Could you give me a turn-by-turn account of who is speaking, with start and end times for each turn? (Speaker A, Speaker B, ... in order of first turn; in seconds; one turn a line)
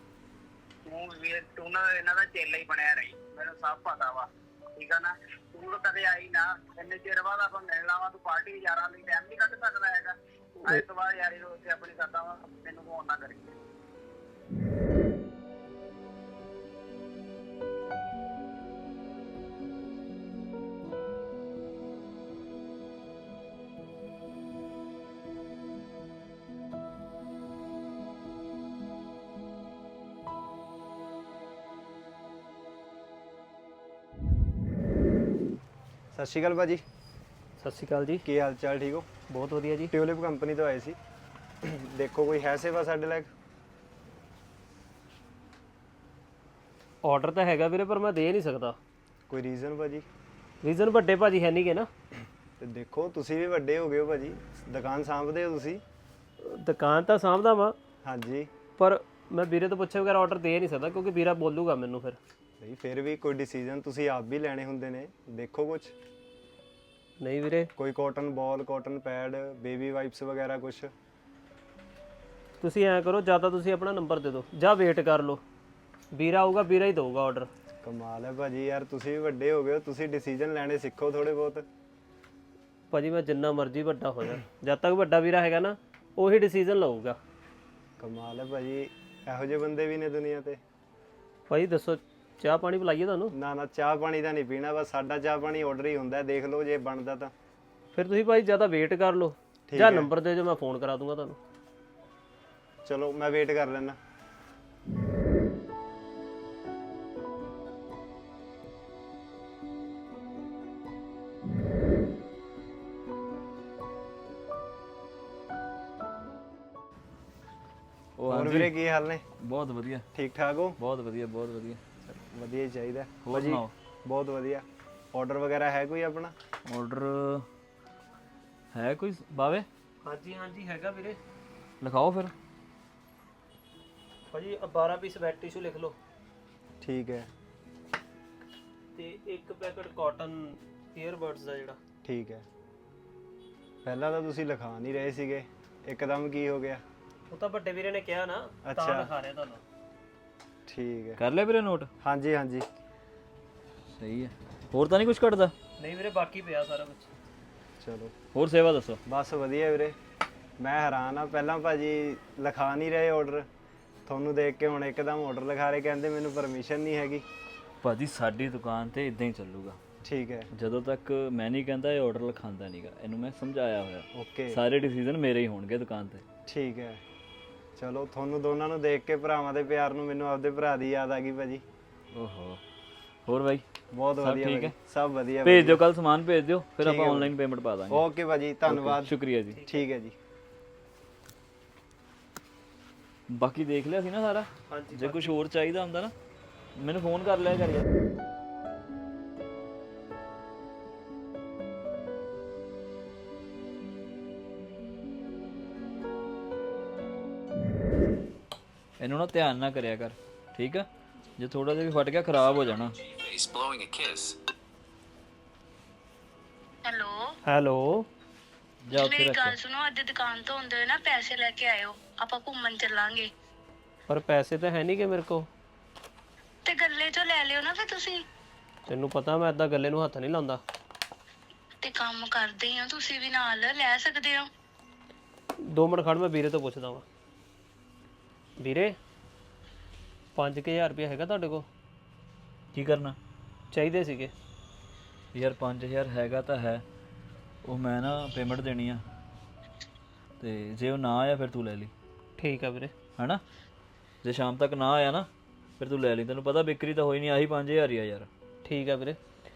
Speaker A: 0.8-13.6
Speaker B: 36.1-36.8
Speaker C: 37.6-38.2
Speaker B: 38.2-39.1
Speaker C: 39.3-39.9
Speaker B: 39.9-41.0
Speaker B: 41.6-43.3
Speaker C: 47.0-48.8
Speaker B: 49.3-50.0
Speaker C: 50.6-51.9
Speaker B: 52.6-55.8
Speaker C: 56.4-57.8
Speaker B: 58.0-58.5
Speaker C: 58.8-62.2
Speaker B: 62.6-65.9
Speaker C: 67.2-67.7
Speaker B: 67.8-70.9
Speaker C: 72.6-75.4
Speaker C: 76.1-77.5
Speaker B: 77.8-81.6
Speaker C: 82.9-87.2
Speaker B: 88.0-90.6
Speaker C: 91.5-93.3
Speaker B: 93.3-97.3
Speaker C: 97.9-101.4
Speaker B: 99.7-100.1
Speaker B: 102.8-104.0
Speaker D: 118.2-118.8
Speaker B: 118.3-119.2
Speaker D: 119.4-120.1
Speaker B: 120.1-120.8
Speaker D: 120.8-121.8
Speaker B: 122.0-126.3
Speaker D: 123.2-123.7
Speaker D: 126.7-127.5
Speaker D: 128.7-129.7
Speaker C: 130.0-131.2
Speaker D: 131.8-132.3
Speaker C: 134.3-136.0
Speaker B: 136.8-137.3
Speaker C: 138.9-141.8
Speaker B: 142.0-142.4
Speaker B: 143.8-146.8
Speaker C: 147.3-149.6
Speaker B: 148.6-149.1
Speaker B: 150.7-151.2
Speaker D: 151.2-151.9
Speaker B: 152.0-152.7
Speaker D: 153.9-155.5
Speaker C: 155.8-157.1
Speaker B: 157.8-158.1
Speaker D: 158.3-159.0
Speaker B: 159.1-160.0
Speaker B: 160.6-163.5
Speaker B: 164.1-167.2
Speaker D: 167.8-169.8
Speaker B: 170.0-170.5
Speaker D: 170.5-176.2
Speaker B: 174.1-174.6
Speaker B: 176.5-177.0
Speaker B: 177.8-181.6
Speaker D: 182.1-182.6
Speaker D: 183.2-183.6
Speaker B: 183.9-185.8
Speaker D: 184.2-184.8
Speaker D: 185.4-188.1
Speaker B: 186.8-187.3
Speaker B: 187.9-189.1
Speaker D: 188.7-189.6
Speaker C: 189.5-189.8
Speaker B: 189.7-190.2
Speaker D: 193.3-196.1
Speaker C: 194.7-195.3
Speaker D: 196.8-197.8
Speaker D: 209.0-210.9
Speaker D: 211.4-213.0
Speaker E: 216.8-217.3
Speaker C: 217.4-218.1
Speaker D: 218.8-219.6
Speaker E: 218.9-223.3
Speaker C: 224.1-225.5
Speaker E: 226.7-228.2
Speaker C: 228.9-230.6
Speaker E: 231.8-234.5
Speaker C: 235.6-237.0
Speaker C: 238.6-238.9
Speaker C: 240.3-241.7
Speaker D: 242.7-243.2
Speaker C: 243.7-244.3
Speaker D: 245.3-246.8
Speaker D: 247.6-249.0
Speaker D: 250.4-251.9
Speaker C: 252.4-252.9
Speaker D: 253.2-253.4
Speaker D: 254.2-255.3
Speaker D: 255.8-258.3
Speaker C: 258.6-259.2